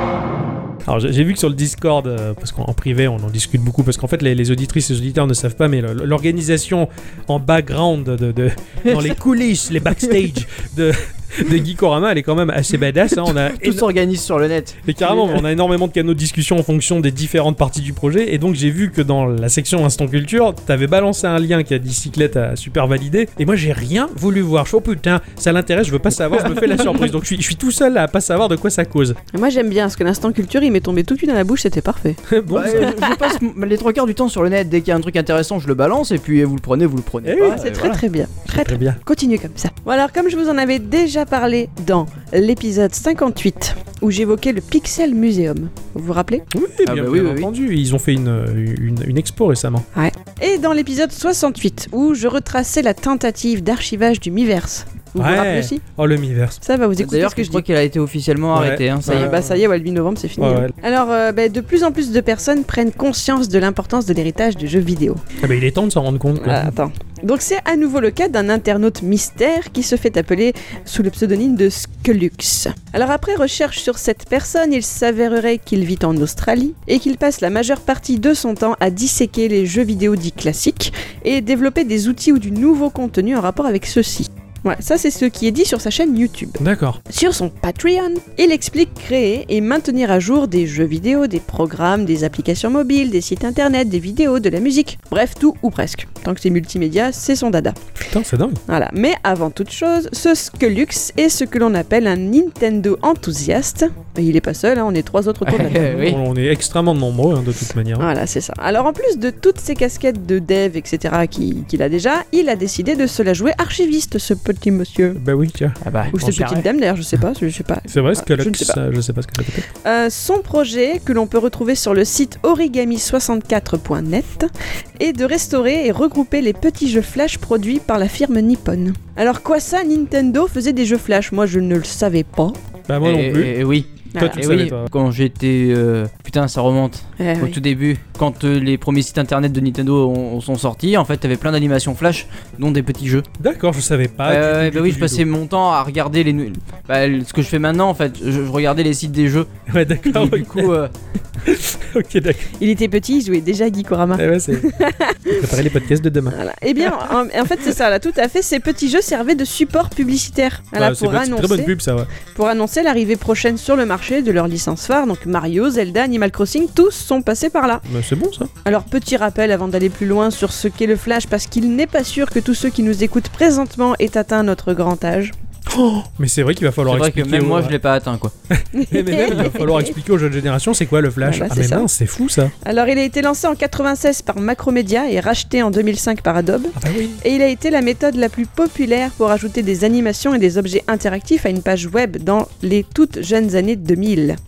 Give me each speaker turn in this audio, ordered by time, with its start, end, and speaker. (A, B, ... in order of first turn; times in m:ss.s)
0:00.8-0:13.8 A
0:08.9-0:09.1 B
0:13.1-0:15.4 B
0:14.8-0:29.2 A
0:26.5-0:27.1 B
0:29.3-0:33.3 C
0:32.3-0:33.0 A
0:32.5-0:38.0 B
0:37.2-0:39.0 A
0:37.4-0:46.5 C
0:46.5-0:49.8 A
0:46.8-0:47.5 B
0:49.9-0:55.8 C
0:55.2-0:56.6 A
0:56.6-0:57.6 C
0:57.0-0:59.3 B
0:58.5-0:59.5 A
0:59.0-1:05.2 C
1:00.4-1:00.7 A
1:05.4-1:06.7 A
1:06.4-1:38.0 C
1:26.6-1:27.0 A
1:38.1-1:38.6 A
1:38.7-1:46.1 C
1:45.4-1:46.2 B
1:45.8-1:48.1 A
1:48.0-1:55.2 C
1:55.2-1:55.8 A
1:55.8-1:56.7 B
1:56.1-1:58.8 C
1:57.9-1:59.6 A
1:59.8-2:12.6 C
2:12.9-2:13.5 A
2:13.0-2:23.3 B
2:14.1-2:14.4 C
2:14.2-2:14.9 A
2:17.2-2:17.6 C
2:23.4-2:25.2 A
2:24.2-2:29.5 B
2:29.7-2:30.7 A
2:30.0-2:30.9 B
2:31.4-2:32.5 A
2:32.6-2:35.4 C
2:34.1-2:34.7 A
2:35.3-2:37.1 A
2:36.3-2:41.7 C
2:40.7-2:42.1 A
2:42.3-2:47.8 C
2:47.9-2:48.5 A
2:48.6-2:55.3 C
2:55.7-2:57.8 A
2:56.8-2:58.3 B
2:58.5-3:02.5 A
2:58.7-2:59.9 C
3:01.2-3:01.9 C
3:02.6-3:14.4 C
3:06.8-3:07.2 A